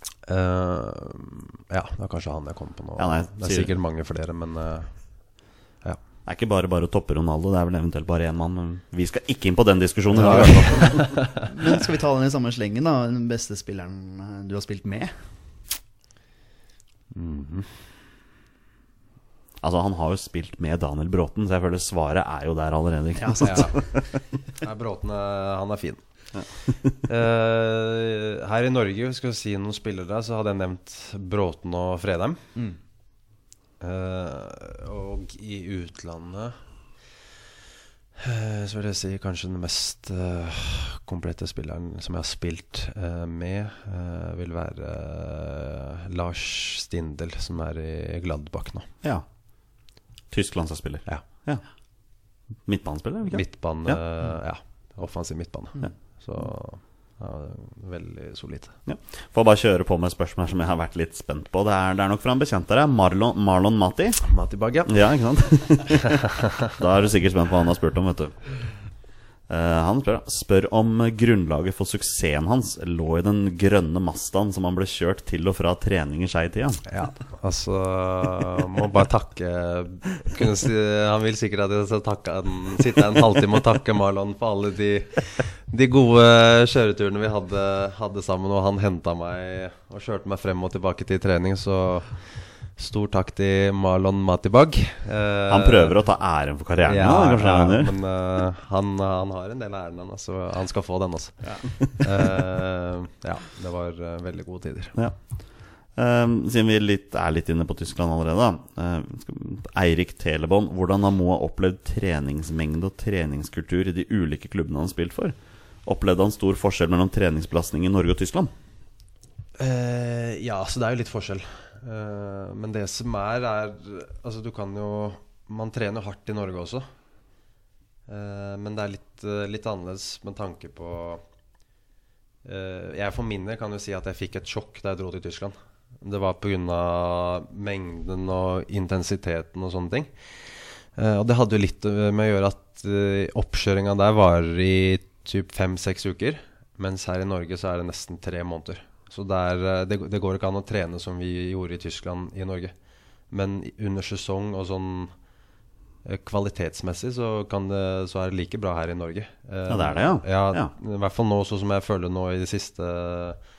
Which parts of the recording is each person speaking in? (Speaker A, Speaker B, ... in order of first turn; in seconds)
Speaker A: 0.3-6.0, 10.1-11.2, 17.1-17.7, 23.4-24.0, 24.6-32.5, 33.8-36.9, 38.2-48.9, 53.3-58.8, 64.2-65.6, 76.9-96.0, 96.8-105.0, 119.6-126.8, 128.1-131.2, 132.4-152.7, 153.2-155.2, 156.0-163.4
Speaker B: 3.0-3.7, 6.3-11.2, 19.6-24.0, 26.4-26.9, 49.8-54.0, 58.9-64.3, 64.9-68.6, 69.5-76.8, 95.5-98.0, 105.0-118.5, 159.7-160.7
Speaker C: 10.2-15.3, 23.2-23.8